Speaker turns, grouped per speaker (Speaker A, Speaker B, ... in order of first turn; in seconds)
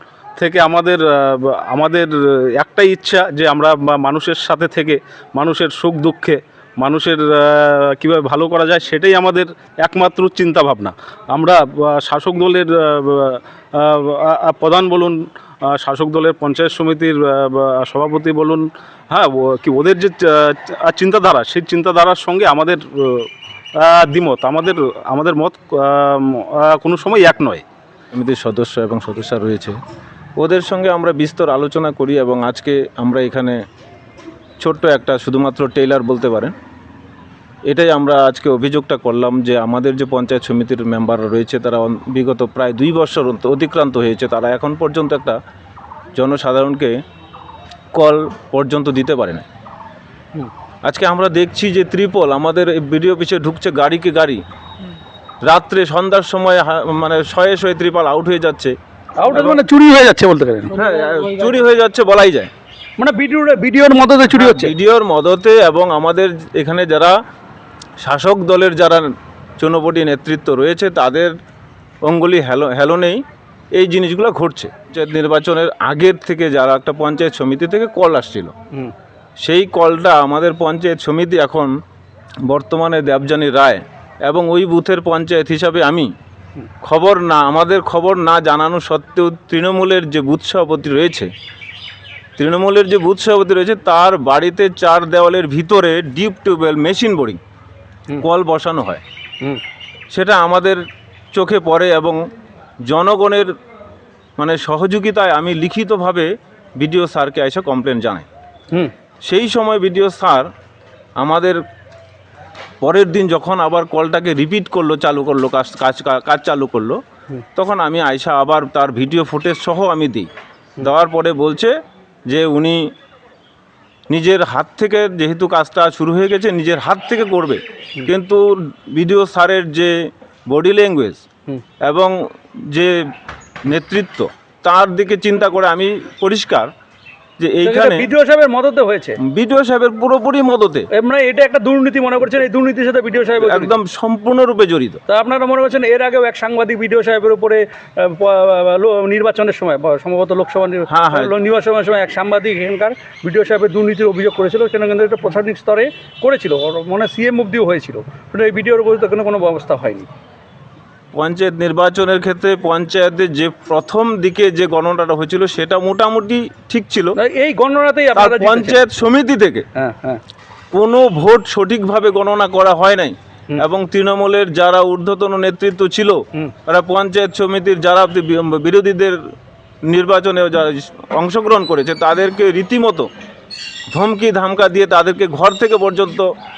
Speaker A: 0.4-15.2, 15.7-23.3, 23.8-27.6
Speaker B: 28.1-29.8, 30.4-33.6, 34.6-36.5, 37.7-45.4, 46.1-47.0, 48.0-49.5, 50.9-54.4, 55.5-58.7, 59.3-59.6, 60.8-62.5, 64.3-67.2, 68.0-69.0, 69.6-71.3, 72.0-73.2, 73.8-78.5, 79.4-81.7, 82.5-86.1, 86.8-91.3, 92.4-97.4, 98.2-99.0, 100.1-100.8, 101.3-102.2, 102.9-103.5, 104.4-108.3, 109.3-110.5, 111.2-111.6, 112.8-117.0, 117.6-120.3, 120.8-121.7, 122.3-122.9, 124.1-129.9, 130.5-131.2, 131.8-132.1, 133.7-136.7, 137.4-138.1, 139.3-140.9, 143.4-145.0, 150.9-151.3, 161.1-167.1, 168.2-169.6, 170.7-179.2, 179.9-183.1, 183.9-186.3
Speaker C: 59.2-60.8, 63.0-64.7, 137.6-139.2, 140.9-143.8, 145.1-160.1, 167.2-168.8, 169.8-170.2